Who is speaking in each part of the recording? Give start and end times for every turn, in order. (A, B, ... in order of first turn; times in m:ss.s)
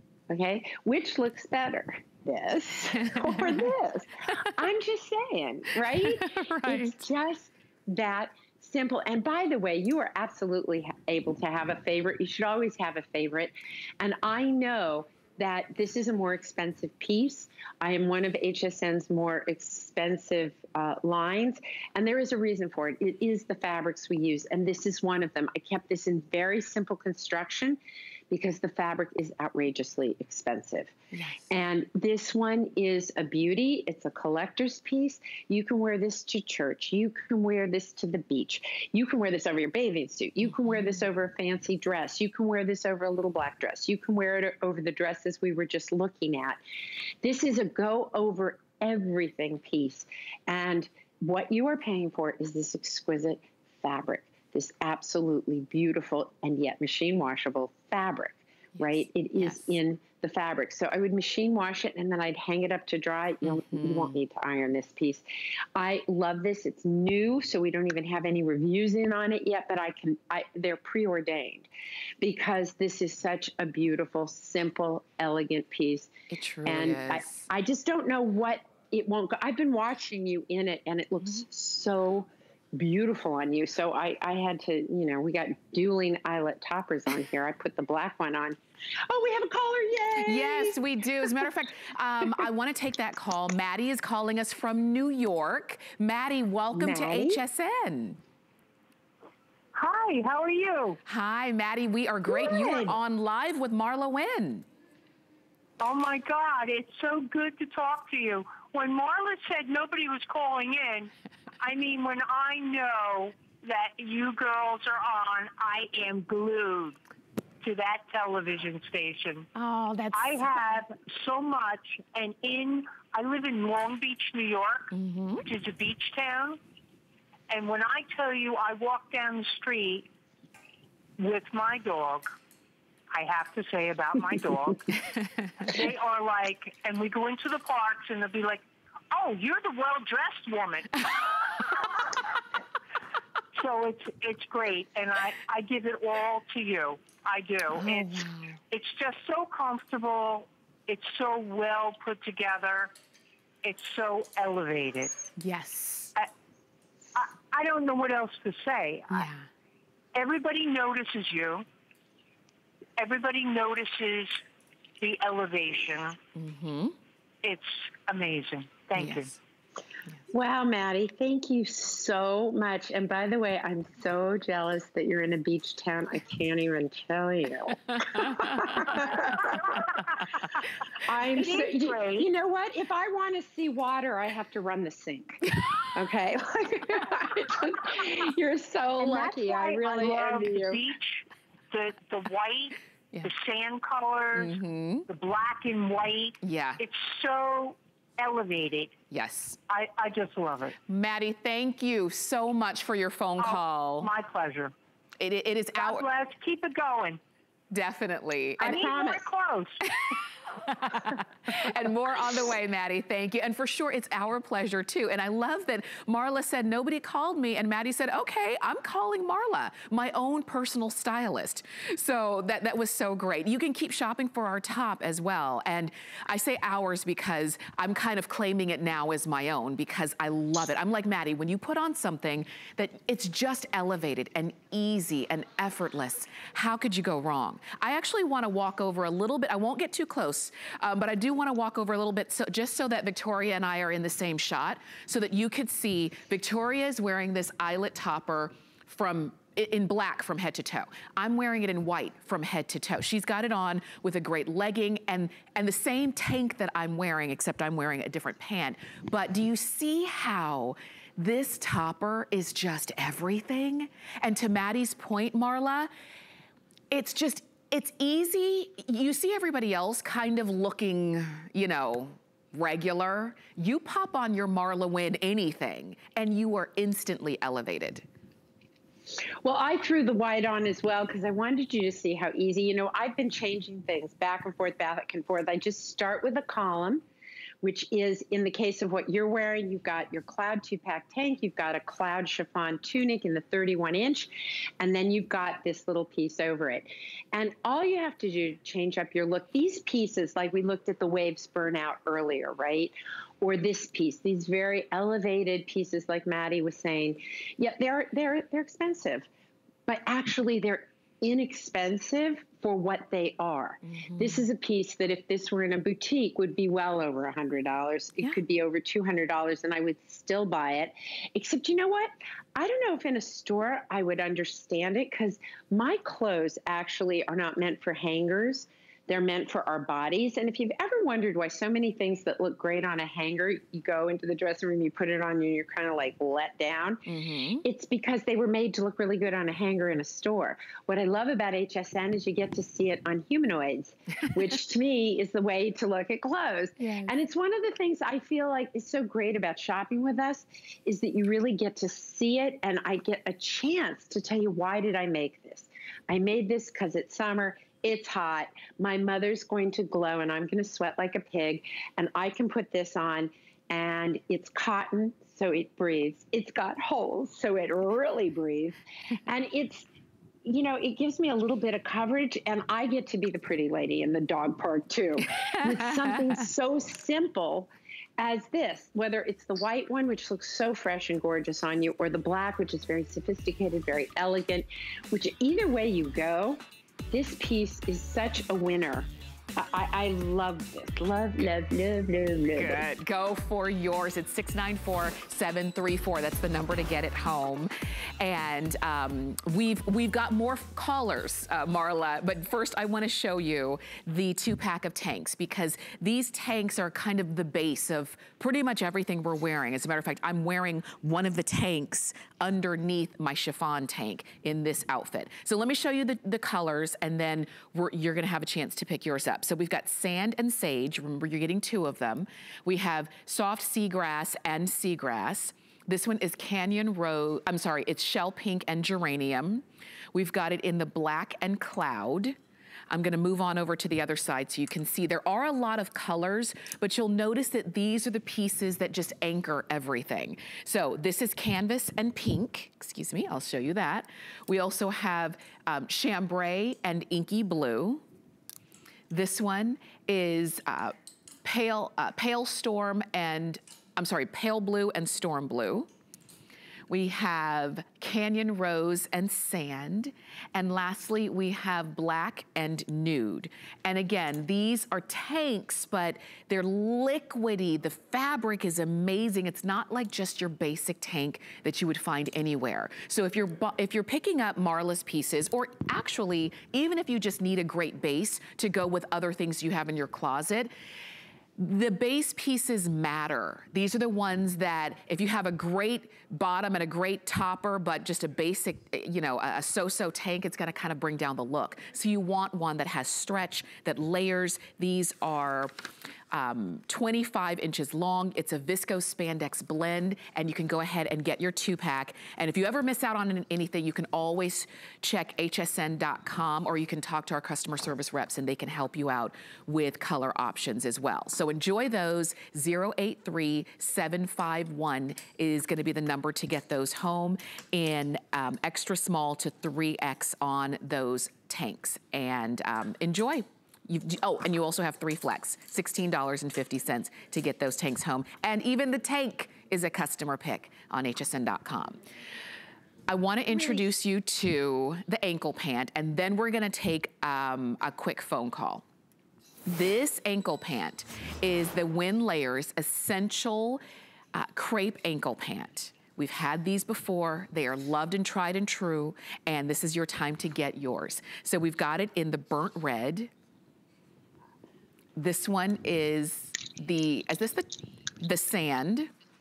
0:00.3-0:27.8 A
0:03.1-0:03.6 B
0:05.9-0:07.0 B
0:28.3-0:30.9 A
0:31.1-0:31.5 B
0:31.5-0:46.6 A
0:40.4-0:41.0 B
0:47.2-1:05.2 A
0:58.8-0:59.8 B
1:03.4-1:04.2 B
1:05.7-1:11.7 A
1:12.2-1:16.1 A
1:16.3-1:17.5 B
1:16.6-1:28.6 A
1:29.1-1:30.8 A
1:30.2-1:38.2 B
1:36.7-1:37.4 A
1:39.7-1:41.0 C
1:41.0-1:44.6 B
1:42.3-1:43.0 A
1:45.8-1:57.0 C
1:57.6-1:59.5 C
1:59.5-2:00.5 B
2:00.1-2:06.6 C
2:04.9-2:05.4 B
2:07.5-2:10.1 C
2:11.2-2:12.3 C
2:13.1-2:14.8 C
2:15.6-2:22.1 C
2:23.5-2:32.9 C
2:27.7-2:28.6 B
2:33.6-2:35.1 C
2:35.4-2:36.1 B
2:37.1-2:39.3 C
2:39.1-2:39.5 B
2:40.1-2:41.6 C
2:43.0-2:44.4 C
2:45.0-2:46.2 C
2:46.3-2:47.0 B
2:47.4-2:49.3 C
2:49.0-2:49.4 B
2:50.3-2:59.8 A
2:58.0-2:58.9 B
3:01.0-3:10.8 A
3:01.3-3:02.3 C
3:09.0-3:14.6 C
3:14.3-3:15.1 B
3:15.1-3:18.9 C
3:16.4-3:16.8 B
3:19.1-3:19.6 B
3:19.7-3:20.8 C
3:20.9-3:24.1 B
3:23.4-3:24.7 C
3:25.2-3:26.0 B
3:25.8-3:27.2 C
3:27.7-3:28.9 B
3:28.6-3:29.2 A
3:28.6-3:29.9 C
3:30.0-4:25.9 B
4:26.9-4:38.0 B
4:39.4-4:47.0 A
4:47.6-5:09.3 A
5:09.9-5:37.0 A
5:13.8-5:14.4 B
5:37.0-5:37.6 B
5:37.6-6:09.9 A
5:46.8-5:47.1 B
6:10.4-6:32.8 A
6:15.5-6:16.3 B
6:32.5-7:12.4 B
7:12.9-7:28.0 B
7:29.1-7:35.9 B
7:36.9-8:00.7 B
8:01.6-8:15.7 B
8:16.3-8:52.0 B
8:53.1-8:58.8 B
8:59.6-9:03.8 B
9:04.3-9:13.3 B
9:15.2-9:17.7 B
9:18.2-9:19.1 B